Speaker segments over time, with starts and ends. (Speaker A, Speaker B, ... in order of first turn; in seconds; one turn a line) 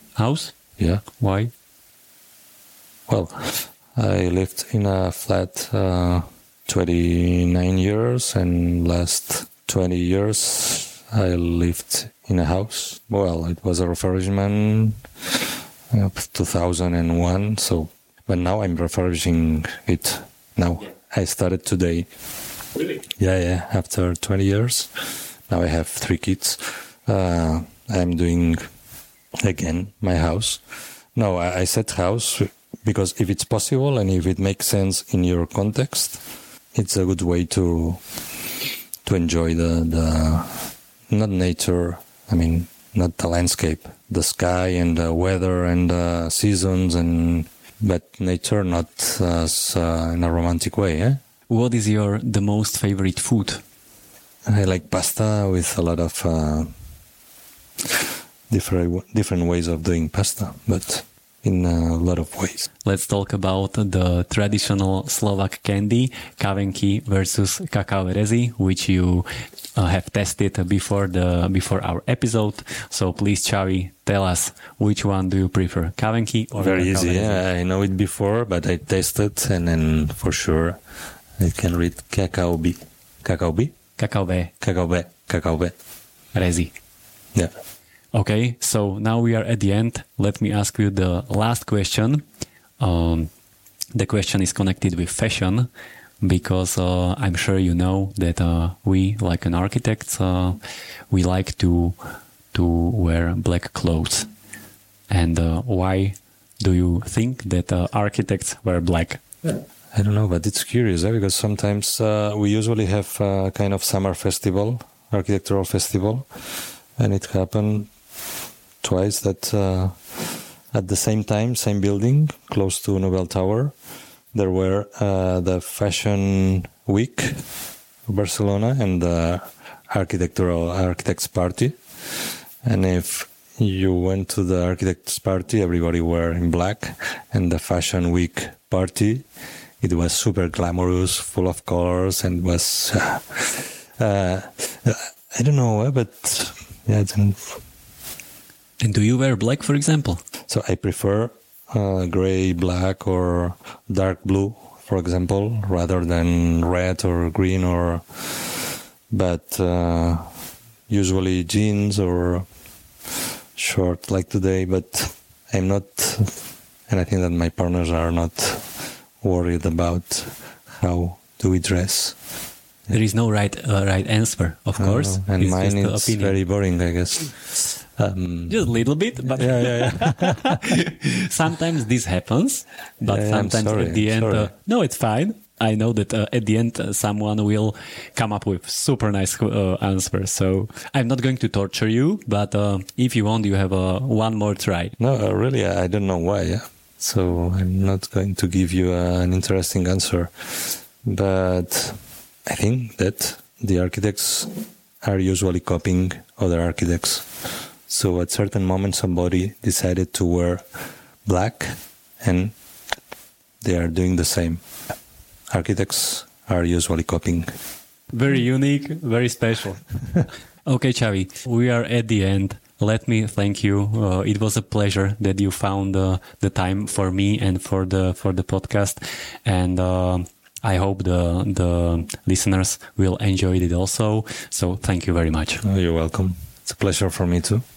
Speaker A: 0.1-0.6
Speaker B: 0.8-1.0
Speaker A: 1.2-1.5
Speaker B: 3.1-22.1
Speaker B: 23.0-28.7
Speaker B: 29.4-30.6
Speaker B: 31.1-36.2
Speaker B: 36.7-38.0
Speaker B: 39.0-51.2
Speaker A: 51.5-53.6
Speaker B: 54.5-56.7
Speaker B: 57.8-62.7
Speaker A: 62.8-77.4
Speaker B: 76.6-80.8
Speaker B: 81.4-83.8
Speaker A: 84.0-84.5
Speaker B: 84.6-85.8
Speaker A: 86.3-86.7
Speaker A: 88.1-92.2
Speaker A: 92.8-93.3
Speaker A: 94.0-95.7
Speaker A: 96.2-100.6
Speaker A: 101.1-102.0
Speaker A: 102.5-104.3
Speaker A: 105.1-109.5
Speaker B: 109.9-116.3
Speaker B: 117.0-117.9
Speaker B: 118.8-123.8
Speaker B: 124.3-127.5
Speaker B: 128.1-131.8
Speaker B: 132.6-139.3
Speaker B: 139.8-147.6
Speaker A: 148.8-150.2
Speaker B: 150.5-160.3
Speaker B: 160.9-162.5
Speaker B: 163.6-172.2
Speaker A: 172.9-176.4
Speaker B: 174.8-178.6
Speaker A: 178.5-195.0
Speaker B: 179.3-180.8
Speaker B: 183.0-184.5
Speaker B: 195.0-207.3
Speaker B: 207.9-210.7
Speaker B: 211.2-212.5
Speaker B: 213.6-214.6
Speaker B: 215.5-217.5
Speaker A: 218.1-219.8
Speaker A: 220.7-235.6
Speaker B: 235.6-237.6